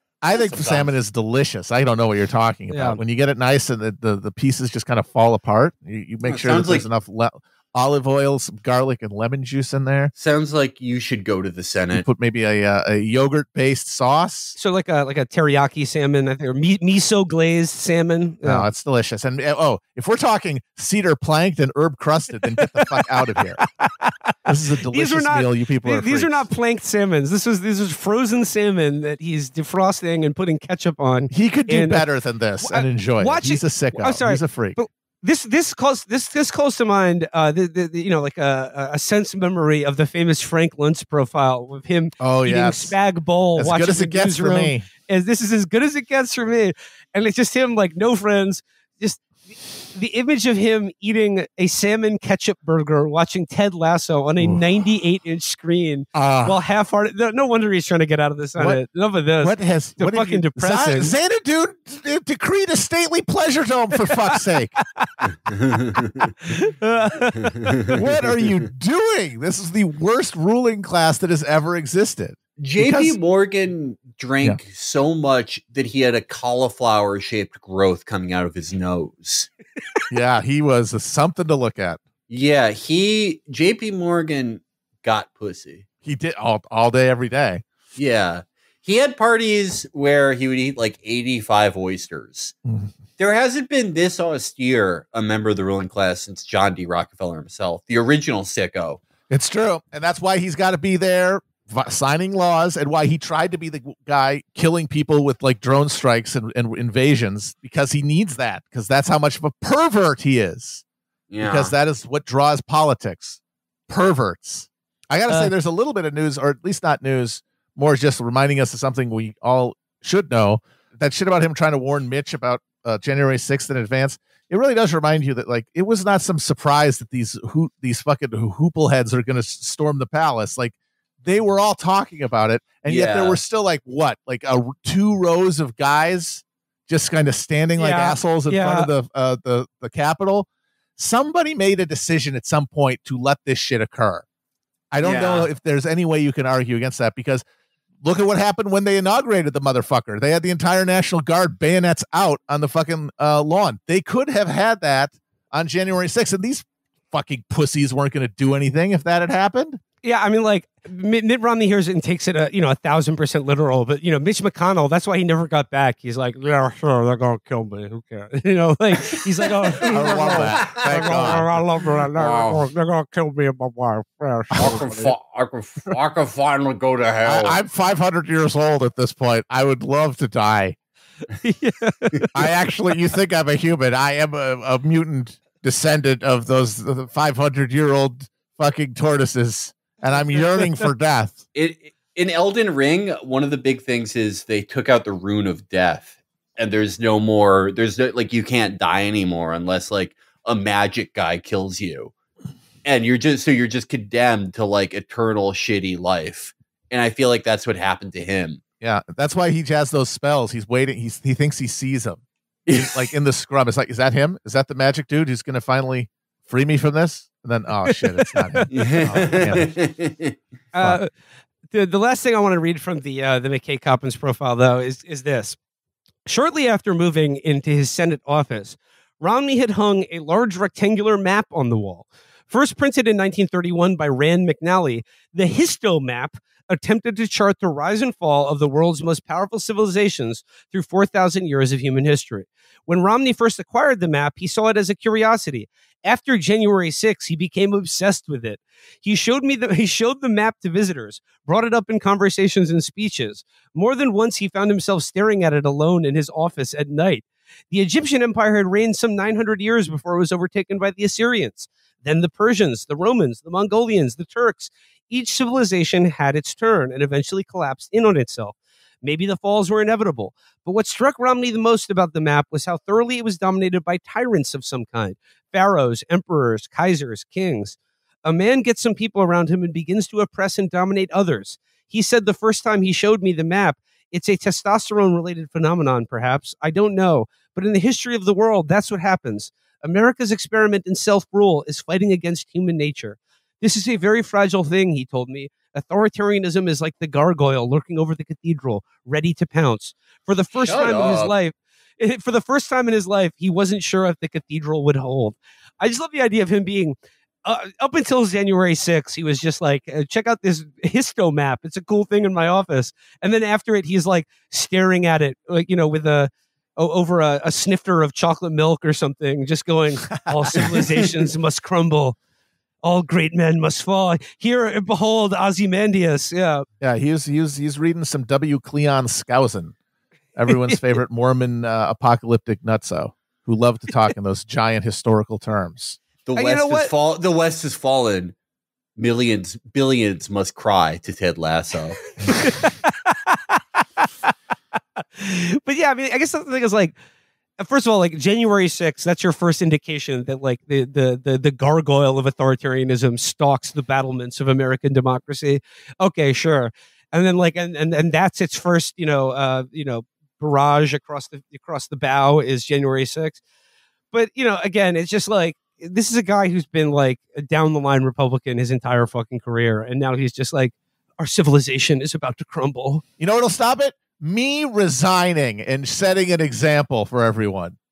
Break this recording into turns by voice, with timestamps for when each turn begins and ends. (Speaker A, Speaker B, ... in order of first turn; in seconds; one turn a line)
Speaker A: 0.2-10.1
Speaker B: 0.3-0.9
Speaker C: 2.7-3.0
Speaker B: 6.2-6.9
Speaker B: 10.2-12.1
Speaker A: 11.9-14.6
Speaker C: 14.6-18.7
Speaker A: 18.4-23.6
Speaker C: 22.6-24.3
Speaker A: 24.4-26.5
Speaker C: 24.9-32.0
Speaker A: 31.3-34.8
Speaker C: 32.6-49.3
Speaker A: 42.2-43.0
Speaker A: 43.5-44.8
Speaker C: 49.8-61.1
Speaker A: 56.1-56.6
Speaker A: 59.4-64.7
Speaker C: 64.3-65.3
Speaker B: 65.5-66.3
Speaker C: 66.4-68.0
Speaker B: 67.6-67.9
Speaker A: 68.0-73.1
Speaker B: 72.6-79.5
Speaker A: 80.1-82.0
Speaker B: 82.3-85.8
Speaker A: 86.0-87.6
Speaker B: 88.0-92.5
Speaker A: 92.6-92.9
Speaker B: 93.2-99.0
Speaker A: 99.3-110.8
Speaker B: 111.3-111.7
Speaker A: 111.4-144.2
Speaker B: 132.8-133.4
Speaker C: 137.8-138.9
Speaker A: 144.9-147.4
Speaker B: 145.0-145.5
Speaker A: 148.0-159.8
Speaker C: 160.0-175.1
Speaker B: 169.8-171.4
Speaker A: 169.8-171.5
Speaker B: 172.1-172.6
Speaker B: 174.6-177.6
Speaker A: 177.2-180.8
Speaker C: 181.3-182.5
Speaker A: 182.3-191.4
Speaker C: 190.3-190.9
Speaker B: 191.5-202.1
Speaker B: 202.8-208.6
Speaker A: 208.8-219.7
Speaker B: 212.7-213.1
Speaker C: 217.9-218.7
Speaker B: 218.7-220.4
Speaker C: 220.7-221.1
Speaker C: 221.7-225.6
Speaker C: 226.2-322.1
Speaker B: 300.5-301.3
Speaker A: 320.3-320.8
Speaker C: 322.8-326.6
Speaker A: 326.8-329.7
Speaker A: 330.4-336.0
Speaker C: 330.5-330.8
Speaker B: 336.2-338.3
Speaker C: 336.4-336.9
Speaker B: 339.0-342.2
Speaker C: 342.2-344.3
Speaker C: 345.0-346.9
Speaker C: 347.6-363.4
Speaker C: 364.1-373.0
Speaker A: 373.2-377.8